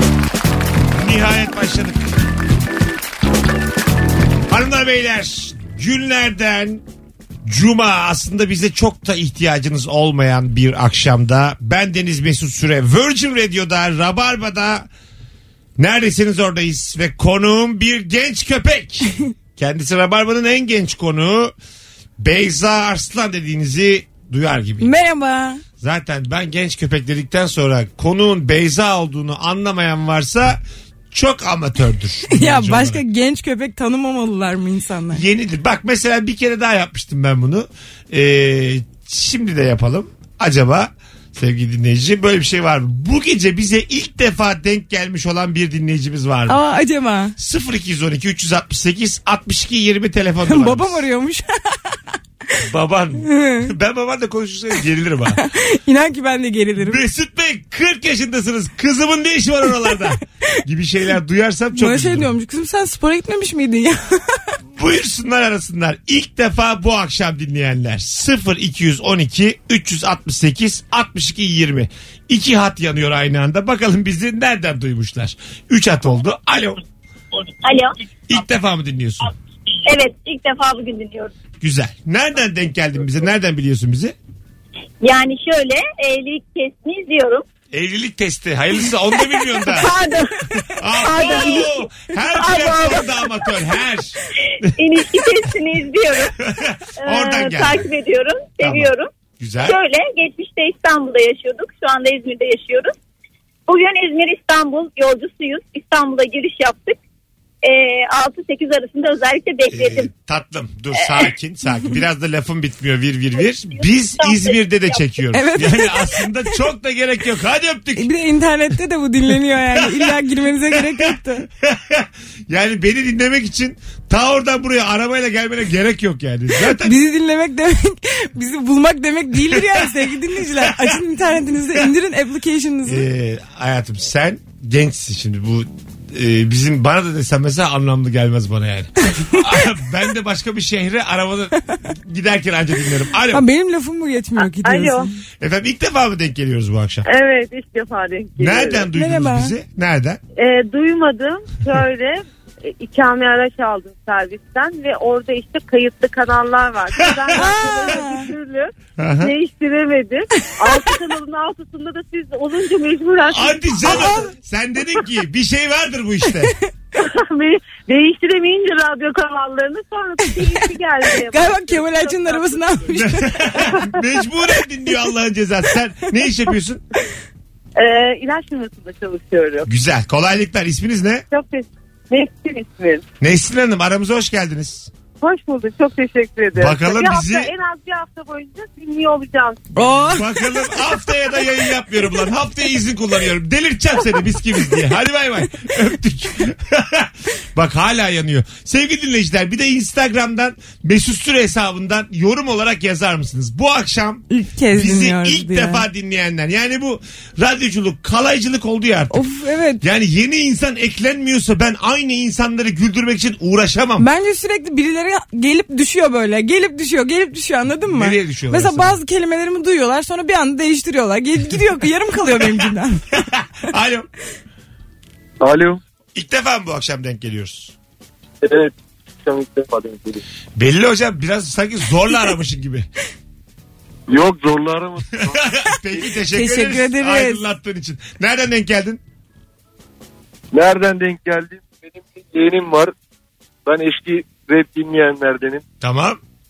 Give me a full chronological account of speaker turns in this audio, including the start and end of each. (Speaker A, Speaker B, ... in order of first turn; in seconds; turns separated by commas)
Speaker A: 0.9-2.0, Speaker A: 4.5-6.8, Speaker A: 7.4-14.9, Speaker A: 15.8-21.5, Speaker A: 22.2-24.9, Speaker B: 24.8-25.6, Speaker A: 25.8-30.6, Speaker A: 31.1-33.0, Speaker B: 32.3-35.2, Speaker A: 35.1-46.6, Speaker B: 46.5-47.3, Speaker A: 47.4-51.0, Speaker B: 50.5-52.0, Speaker A: 52.6-55.4, Speaker B: 53.2-53.7, Speaker B: 55.3-57.0, Speaker A: 56.8-62.3, Speaker B: 61.8-64.5, Speaker A: 64.8-76.8, Speaker C: 77.6-77.9, Speaker A: 78.3-79.3, Speaker C: 79.9-81.3, Speaker A: 81.6-84.2, Speaker C: 85.0-87.4, Speaker A: 87.7-89.9, Speaker C: 89.3-93.6, Speaker A: 90.8-95.4, Speaker C: 94.8-96.3, Speaker A: 96.4-97.9, Speaker C: 97.0-102.9, Speaker A: 98.6-99.8, Speaker C: 103.7-107.0, Speaker C: 107.6-110.1, Speaker A: 109.7-118.1, Speaker C: 111.0-111.3, Speaker C: 113.8-115.0, Speaker B: 115.3-116.2, Speaker B: 117.9-121.5, Speaker A: 119.7-127.0, Speaker B: 126.6-133.1, Speaker A: 129.3-131.0, Speaker A: 132.8-143.4, Speaker B: 143.3-145.1, Speaker D: 144.6-145.1, Speaker A: 145.4-147.1, Speaker D: 147.1-148.8, Speaker A: 148.4-150.2, Speaker B: 148.9-149.5, Speaker D: 150.4-164.2, Speaker A: 156.9-157.5, Speaker B: 157.3-158.3, Speaker A: 159.0-159.3, Speaker A: 163.3-166.5, Speaker B: 163.8-164.3, Speaker D: 166.9-172.9, Speaker B: 170.3-170.6, Speaker B: 171.2-173.7, Speaker A: 172.9-176.8, Speaker D: 173.7-174.0, Speaker D: 177.8-179.7, Speaker A: 179.7-181.2, Speaker D: 181.3-183.0, Speaker A: 183.2-184.9, Speaker D: 185.2-189.7, Speaker A: 186.6-187.5, Speaker B: 189.8-190.6, Speaker A: 190.1-209.2, Speaker B: 204.3-205.8, Speaker B: 209.1-209.8, Speaker A: 209.8-214.1, Speaker B: 214.0-223.2, Speaker A: 217.9-219.0, Speaker A: 223.2-224.1, Speaker E: 225.4-225.8, Speaker A: 226.1-227.7, Speaker E: 228.4-228.7, Speaker E: 229.2-230.2, Speaker A: 230.6-232.9, Speaker E: 234.1-235.4, Speaker A: 235.1-239.0, Speaker B: 236.3-237.4, Speaker E: 240.5-242.9, Speaker E: 243.7-245.6, Speaker A: 245.8-246.2